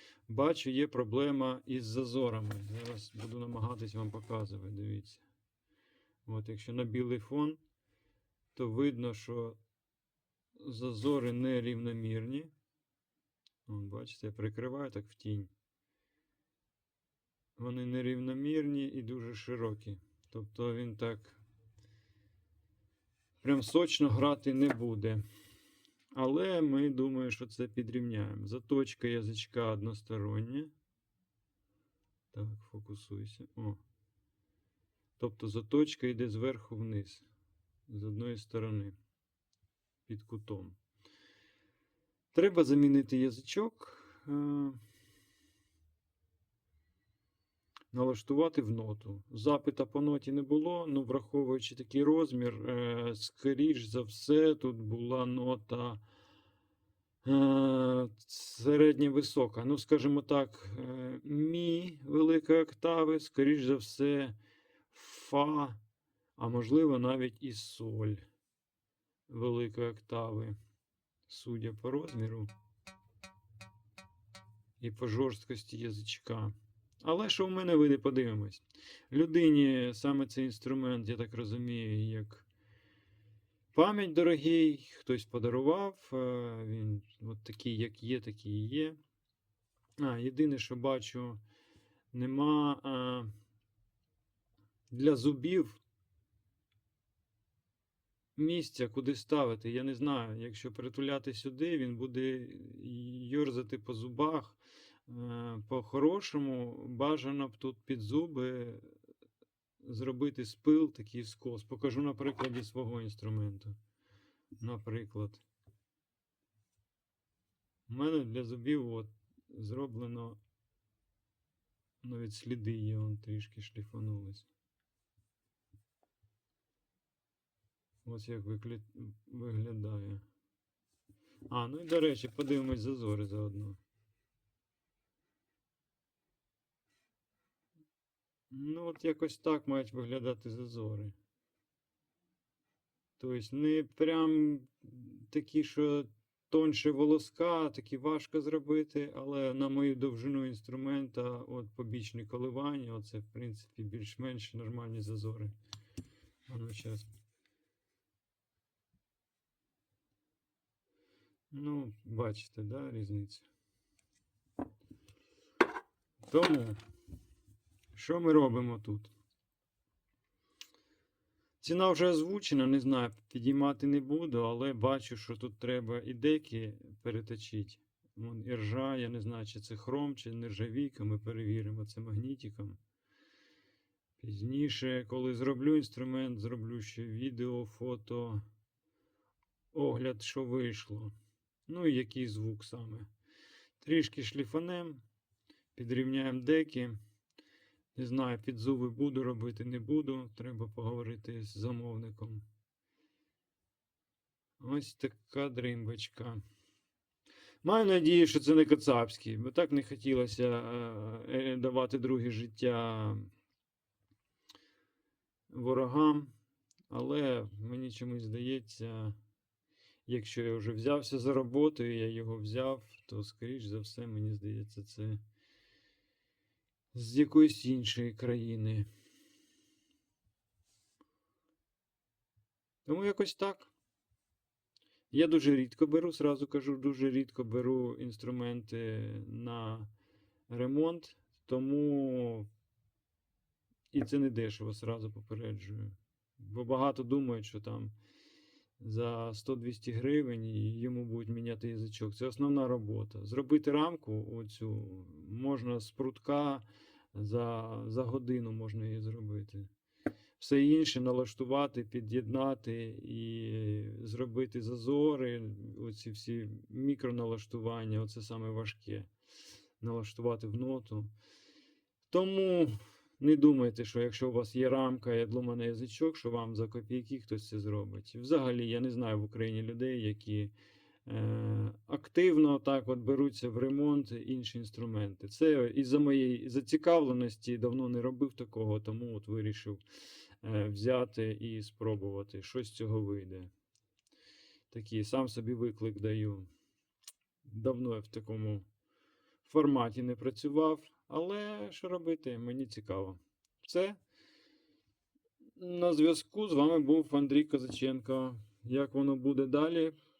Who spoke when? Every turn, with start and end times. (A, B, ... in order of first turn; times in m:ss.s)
0:00.3-0:05.2 A
0:06.2-0:07.6 A
0:08.5-0:09.6 A
0:10.6-0:12.5 A
0:13.6-0:15.5 A
0:17.6-0:21.4 A
0:23.4-0:25.2 A
0:26.1-0:30.7 A
0:32.3-0:33.8 A
0:35.2-0:37.2 A
0:37.9-0:39.0 A
0:40.1-0:40.8 A
0:42.3-0:44.8 A
0:47.9-0:56.0 A
0:57.2-1:04.4 A
1:04.9-1:05.8 A
1:06.4-1:08.2 A
1:09.3-1:10.6 A
1:11.3-1:12.5 A
1:14.8-1:22.4 A
1:23.7-1:29.0 A
1:30.0-1:31.4 A
1:32.1-1:33.3 A
1:34.9-1:35.8 A
1:38.4-1:48.9 A
1:49.8-1:53.8 A
1:54.6-1:55.4 A
1:57.9-2:00.4 A
2:02.0-2:04.5 A
2:08.0-2:10.2 A
2:11.5-2:13.8 A
2:18.5-2:21.1 A
2:23.2-2:35.5 A
2:36.5-2:37.1 A
2:41.5-2:43.4 A
2:46.2-2:46.8 A
2:47.9-2:49.1 A
2:51.6-3:02.8 A
3:04.2-3:08.4 A
3:09.7-3:11.1 A
3:11.7-3:13.1 A
3:13.8-3:15.0 A
3:15.7-3:17.0 A
3:17.9-3:22.4 A
3:24.6-3:26.4 A
3:27.6-3:33.3 A
3:35.5-3:36.3 A
3:36.9-3:39.2 A
3:40.0-3:45.2 A
3:46.9-3:48.9 A
3:52.8-3:53.7 A
3:55.1-3:59.9 A
4:00.5-4:02.5 A
4:03.9-4:08.0 A
4:08.8-4:19.7 A
4:20.4-4:29.1 A
4:29.8-4:31.1 A
4:32.1-4:40.5 A
4:41.0-4:49.8 A
4:50.4-4:53.5 A
4:54.7-4:56.5 A
4:57.4-4:58.6 A
4:59.4-5:04.0 A
5:05.6-5:09.9 A